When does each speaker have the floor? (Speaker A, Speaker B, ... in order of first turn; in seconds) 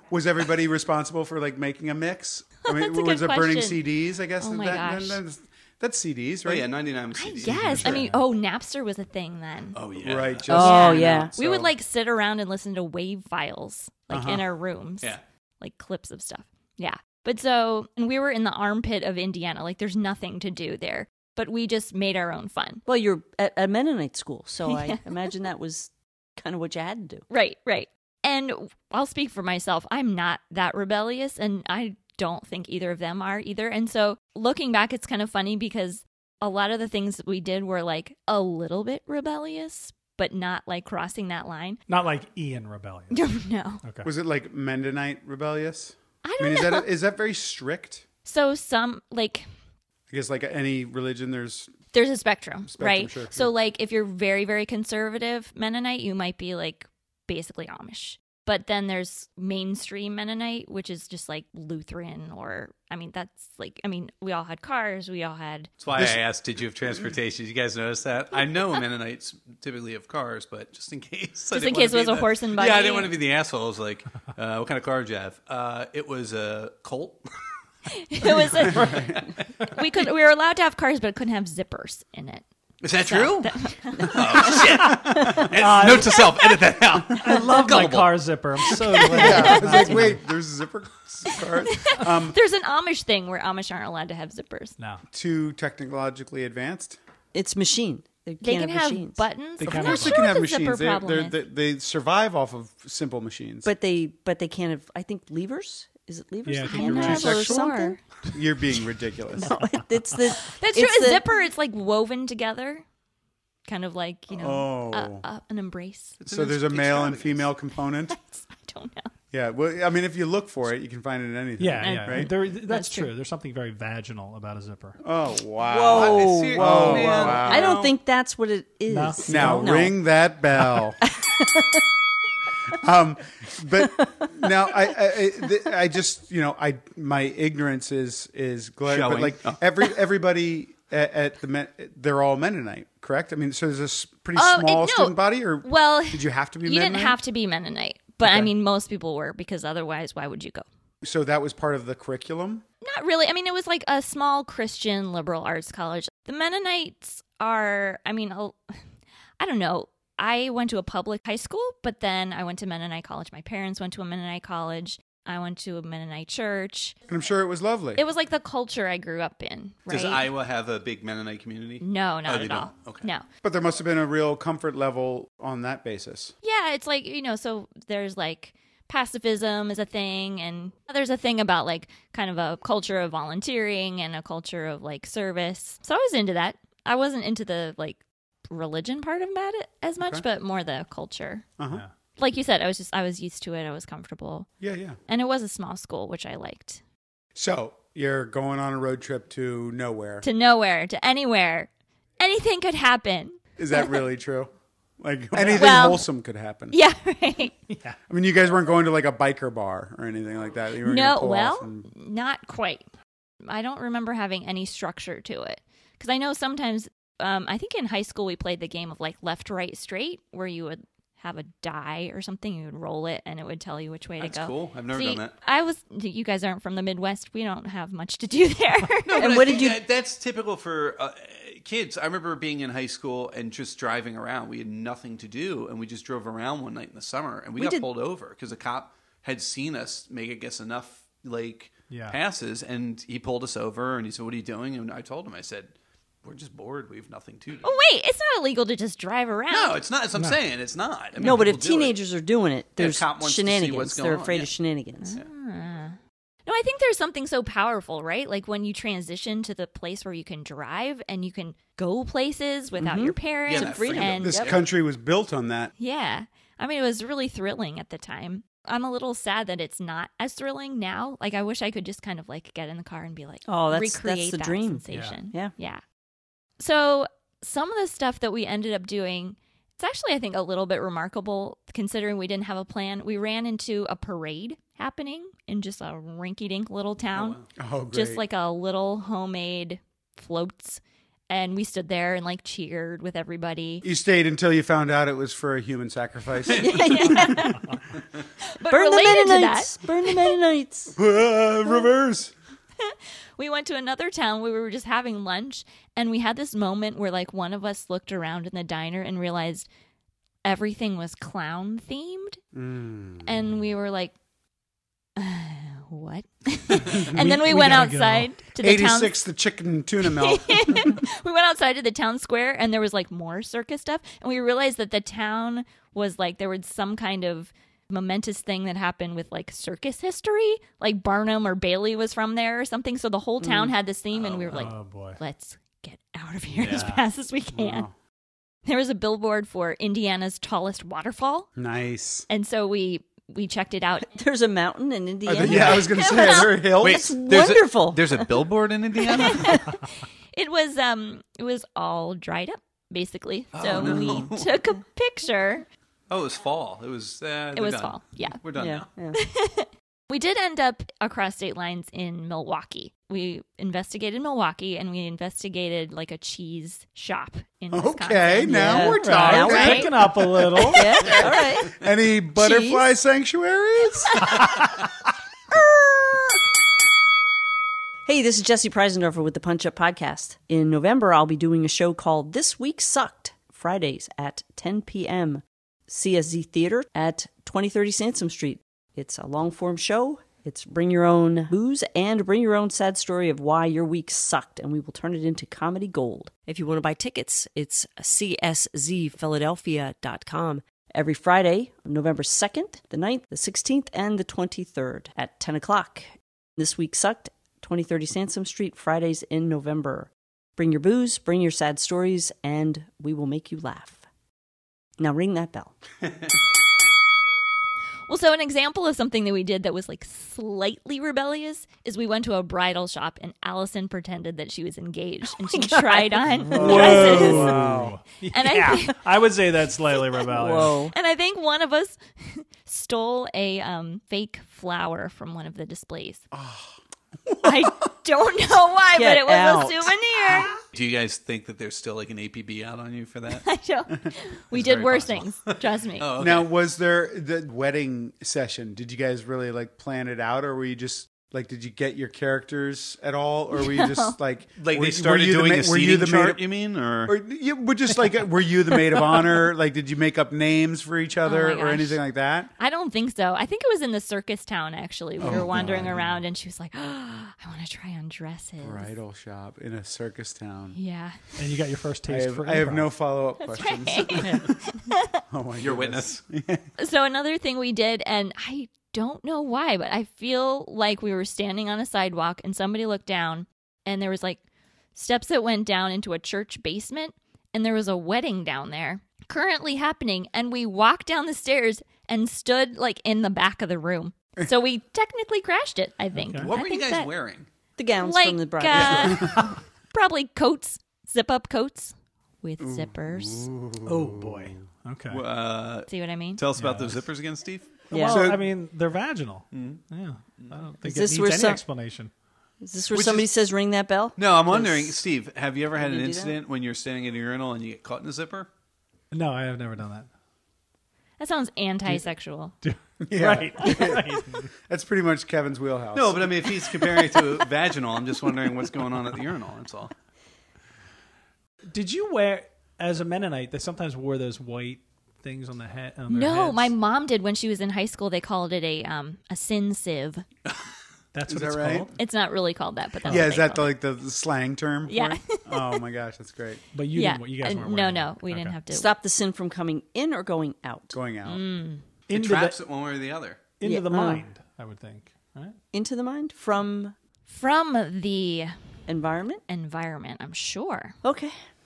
Speaker A: 0.1-6.7, 7.5-8.1, 10.0-11.7, 14.1-14.4, 44.0-48.1, 50.1-51.8, 52.7-53.5, 66.0-66.2, 78.7-79.2, 89.1-92.4, 95.1-97.0, 99.6-103.7, 106.9-107.7, 108.3-109.5, 114.3-115.2, 116.3-118.2, 119.3-122.3, 125.0-127.9, 129.3-131.0, 132.7-147.2, 148.2-148.5, 151.0-152.6, 167.1-168.0, 173.4-176.3, 191.6-191.8, 194.6-195.0, 197.3-200.3, 203.6-206.8, 208.1-211.9, 264.2-265.7, 287.6-288.2, 293.8-297.4, 301.0-302.3, 312.5-313.4, 316.9-317.4, 318.6-321.0, 337.5-337.9, 341.6-342.3, 345.3-347.1, 367.7-374.7, 426.5-428.0, 436.3-437.7, 446.2-456.4, 457.1-462.5, 465.2-466.0, 468.6-470.8, 472.1-474.6, 475.3-476.7, 499.1-499.5, 502.6-504.6, 508.1-508.4, 523.0-526.7, 541.3-541.9, 543.1-546.6, 550.9-551.4
Speaker B: 2.6-3.8, 4.4-5.2, 7.1-9.8, 10.5-22.8, 24.6-25.0, 27.3-41.8, 43.1-43.8, 46.2-46.9, 48.2-49.5, 51.9-65.7, 71.5-73.1, 77.9-84.8, 86.2-86.5, 88.9-90.1, 91.3-94.8, 98.4-101.4, 106.7-108.0, 110.3-112.8, 113.7-116.2, 118.1-119.1, 121.8-123.1, 144.3-150.7, 152.8-158.7, 159.4-167.0, 168.0-170.3, 171.8-173.2, 176.4-191.5, 192.2-194.5, 195.1-196.8, 200.2-204.0, 205.4-206.1, 206.7-207.6, 210.8-212.8, 213.4-229.6, 247.6-249.8, 255.0-264.4, 265.8-275.8, 276.6-287.4, 287.9-293.9, 296.7-297.7, 298.4-300.4, 302.8-309.7, 310.4-312.4, 313.2-314.1, 315.2-319.1, 320.0-337.9, 338.6-341.5, 342.3-344.1, 345.9-346.7, 349.1-355.7, 357.5-358.4, 359.1-369.9, 418.1-427.6, 428.3-429.1, 430.6-436.2, 437.4-440.6, 443.3-446.1, 453.6-454.1, 461.2-462.0, 462.6-468.9, 470.7-471.3, 473.4-475.2, 476.8-484.4, 484.9-497.1, 498.0-503.5, 505.9-506.4, 521.2-522.6, 536.1-540.2, 542.0-543.8, 544.9-545.8, 546.9-548.9, 551.2-551.8, 557.3-558.5, 559.5-561.0
Speaker C: 6.5-8.1, 9.7-11.3, 65.8-77.2, 78.6-79.2, 82.8-89.1, 116.2-117.5, 125.9-128.0, 138.9-139.8, 169.9-173.1, 224.2-225.3, 229.1-245.7, 246.2-247.7, 249.5-252.0, 252.8-254.5, 263.4-264.6, 287.1-287.5, 296.5-297.0, 334.1-334.7, 336.6-336.9, 346.8-349.7, 353.5-354.5, 356.1-358.9, 440.7-443.4, 444.5-446.5, 454.6-457.2, 475.6-476.2, 496.4-497.5, 505.1-507.9, 509.5-509.8, 512.9-513.3, 514.2-518.5, 525.9-529.9, 552.1-553.4
Speaker D: 7.5-8.2, 41.9-43.2, 43.8-44.1, 84.8-86.3, 87.1-90.2, 99.6-100.3, 106.5-107.3, 121.6-125.0, 128.9-129.8, 130.6-130.8, 207.7-208.0, 241.9-242.2, 251.2-251.5, 274.9-275.2, 316.9-318.3, 334.5-335.2, 336.6-337.0, 345.5-345.8, 368.9-370.9, 426.4-430.8, 465.2-466.2, 471.4-472.9, 496.1-496.5, 503.9-505.2, 506.6-507.1, 507.9-512.1, 519.1-520.1, 522.6-524.5, 531.7-536.7, 541.1-542.0, 543.0-543.3, 546.7-548.6, 552.1-552.6, 553.6-555.6
Speaker E: 10.5-11.3, 22.9-27.3, 97.3-99.2, 103.7-108.0, 109.4-111.3, 125.6-130.0, 131.1-131.8, 133.8-134.5, 229.2-229.8, 237.6-237.9, 251.2-255.2, 262.8-264.6, 273.5-275.5, 296.6-297.6, 298.7-300.9, 333.4-333.7, 344.1-346.2, 346.8-348.3, 349.1-349.6, 353.7-354.3, 358.6-359.2, 368.5-369.9, 370.7-371.8, 372.4-372.9, 378.1-414.0, 415.0-415.7, 425.4-427.5, 430.3-430.9, 438.9-440.4, 474.2-474.5, 497.8-499.4, 507.9-508.3, 510.8-511.6, 512.6-515.0, 515.8-516.4, 548.7-551.0, 553.6-554.2, 555.7-557.0, 558.9-559.4, 561.0-561.4